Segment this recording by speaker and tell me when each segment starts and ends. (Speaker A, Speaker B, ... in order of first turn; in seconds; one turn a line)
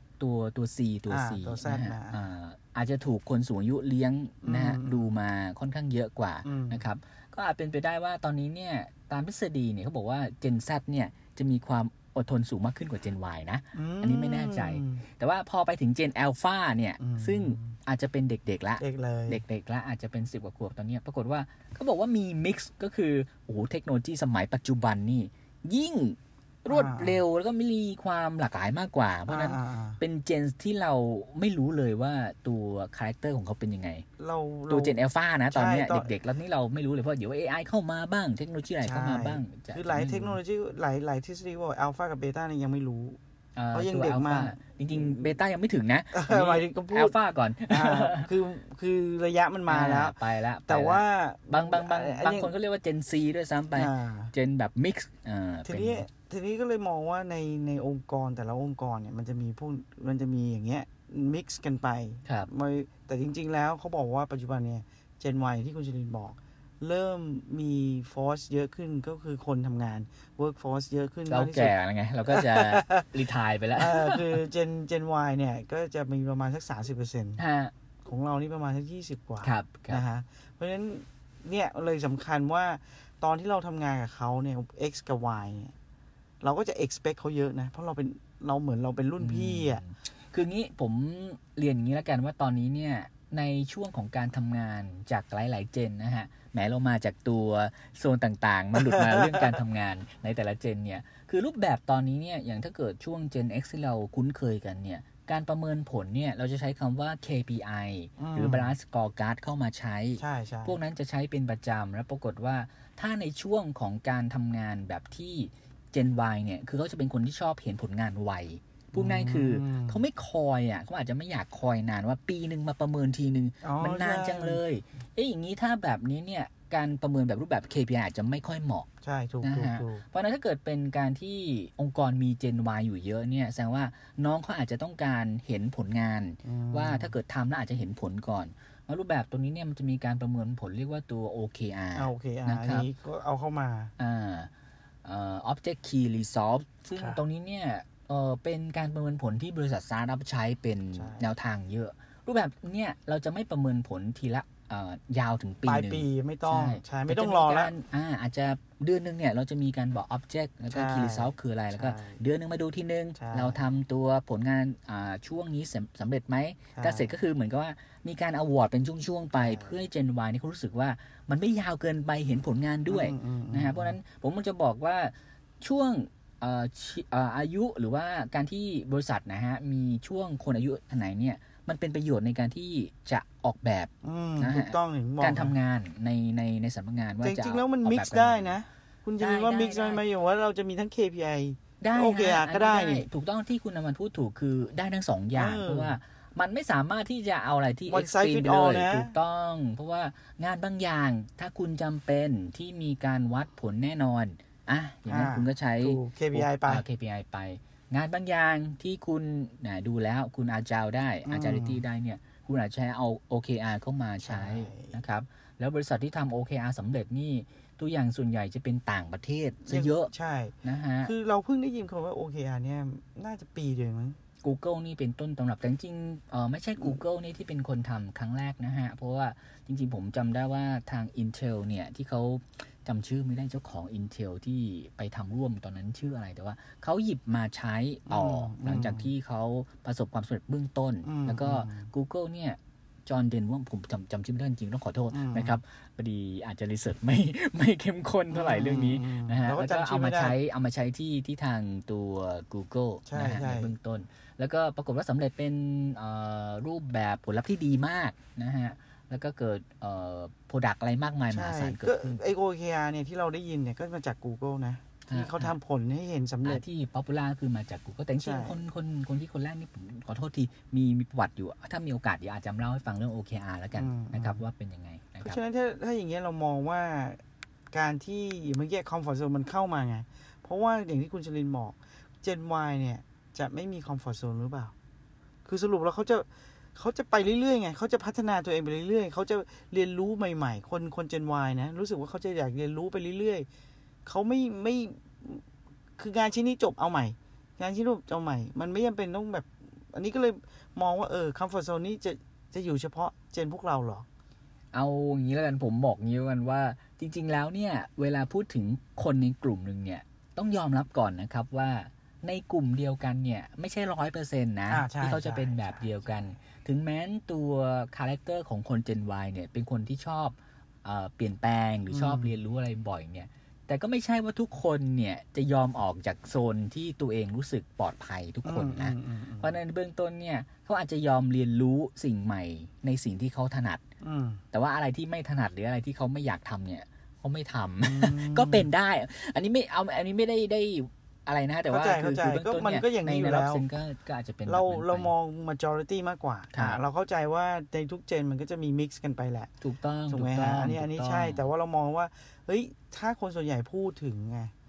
Speaker A: 0.2-34.0
Speaker B: 1.1-2.2
Speaker B: 4.4-5.1
Speaker B: 6.4-6.8
Speaker B: 13.7-15.0
Speaker B: 17.0-17.8
Speaker B: 18.8-19.4
Speaker B: 26.7-27.2
Speaker B: 29.3-30.0
Speaker B: 34.2-35.0
Speaker A: 34.7-40.4
Speaker B: 35.5-36.1
Speaker B: 38.8-43.2
Speaker A: 43.5-48.3
Speaker B: 43.7-45.3
Speaker B: 46.1-47.1
Speaker B: 47.7-52.5
Speaker A: 49.7-56.0
Speaker B: 53.7-54.3
Speaker B: 55.6-71.7
Speaker A: 71.3-74.4
Speaker B: 72.3-73.1
Speaker B: 73.8-77.4
Speaker A: 77.4-77.7
Speaker B: 78.0-85.7
Speaker A: 79.4-80.0
Speaker B: 86.4-89.8
Speaker A: 89.2-128.9
Speaker B: 98.8-99.5
Speaker B: 108.2-108.7
Speaker B: 110.2-110.8
Speaker B: 118.9-120.0
Speaker B: 123.6-124.6
Speaker B: 129.0-130.0
Speaker A: 129.4-142.9
Speaker B: 136.4-137.1
Speaker B: 141.9-143.9
Speaker A: 144.0-144.5
Speaker A: 145.0-188.6
Speaker B: 150.9-151.3
Speaker B: 155.6-157.7
Speaker B: 160.7-162.2
Speaker B: 163.2-163.6
Speaker B: 166.7-167.1
Speaker B: 169.4-169.8
Speaker B: 172.9-173.9
Speaker B: 184.0-185.5
Speaker B: 187.2-193.1
Speaker A: 189.2-190.0
Speaker A: 191.8-220.1
Speaker B: 195.3-196.0
Speaker B: 197.9-199.1
Speaker B: 205.1-206.8
Speaker B: 211.2-211.8
Speaker B: 214.2-214.9
Speaker B: 219.7-224.2
Speaker A: 220.6-221.1
Speaker A: 224.4-262.2
Speaker B: 238.1-239.1
Speaker B: 241.0-241.9
Speaker B: 245.1-245.6
Speaker B: 248.3-250.3
Speaker B: 253.1-253.7
Speaker B: 261.3-266.6
Speaker A: 265.1-265.5
Speaker A: 266.4-275.4
Speaker B: 268.2-268.6
Speaker B: 273.7-274.4
Speaker B: 275.2-277.2
Speaker B: 277.7-284.7
Speaker B: 285.4-293.5
Speaker B: 294.0-295.4
Speaker B: 296.0-304.1
Speaker A: 304.7-333.8
Speaker B: 314.7-316.0
Speaker B: 321.9-322.3
Speaker B: 328.4-329.6
Speaker B: 334.0-334.4
Speaker A: 334.5-345.1
Speaker B: 337.8-338.7
Speaker B: 341.7-343.6
Speaker B: 344.4-349.5
Speaker A: 346.5-346.8
Speaker A: 349.6-351.4
Speaker B: 350.1-354.5